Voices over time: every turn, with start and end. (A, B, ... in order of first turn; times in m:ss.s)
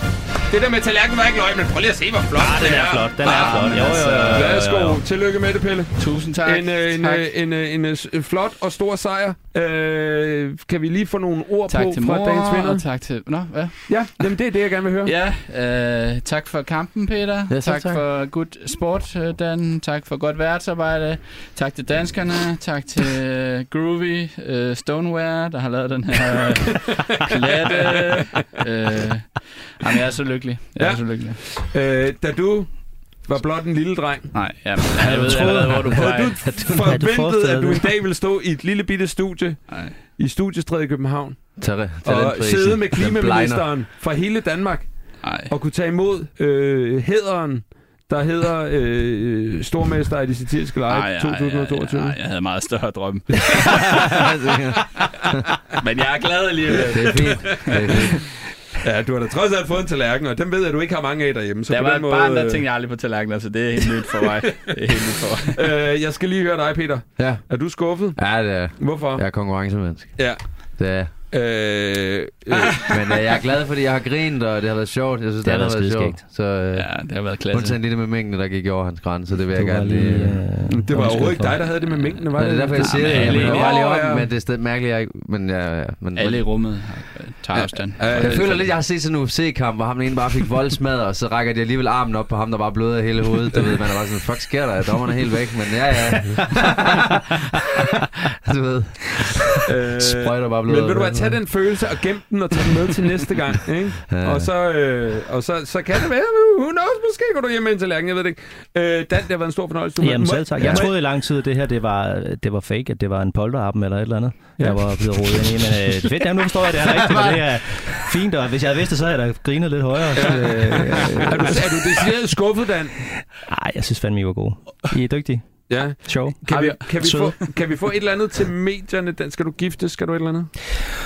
0:00.5-0:12.8 A
0:02.4-0:05.0 B
0:03.2-0:04.6 C
0:06.0-0:07.3 C
0:11.7-0:14.3 C
0:13.9-0:15.1 A
0:15.0-0:31.5 C
0:17.5-0:18.0 D
0:27.2-0:28.6 A
0:30.8-0:32.7 A
0:33.2-0:34.3 A
0:34.3-0:36.4 C
0:34.9-0:41.5 A
0:35.0-0:37.9 B
0:39.7-0:39.9 C
0:41.6-0:43.7 D
0:42.0-0:52.2 A
0:45.2-0:45.5 C
0:50.9-0:54.2 C
0:53.6-0:55.4 D
0:55.7-0:58.0 C
0:56.8-0:58.2 D
0:56.9-0:58.0 A
0:58.8-1:02.6 A
1:01.7-1:05.6 C
1:05.5-1:09.2 A
1:07.2-1:07.4 D
1:08.1-1:10.2 D
1:10.8-1:11.1 D
1:11.3-1:12.9 A
1:12.8-1:17.0 D
1:15.4-1:16.2 B
1:16.7-1:17.8 C
1:17.5-1:20.4 D
1:19.5-1:21.6 B
1:20.7-1:24.3 A
1:22.4-1:26.4 D
1:22.7-1:23.8 C
1:26.1-1:28.4 C
1:27.5-1:28.7 A
1:28.1-1:41.4 D
1:39.6-1:50.9 A
1:44.1-1:44.5 D
1:50.0-2:02.1 B
1:50.6-1:50.9 D
1:54.6-1:55.4 A
1:56.8-1:57.4 D
2:00.1-2:03.0 A
2:03.0-2:05.4 B
2:05.7-2:10.5 A
2:06.0-2:07.3 B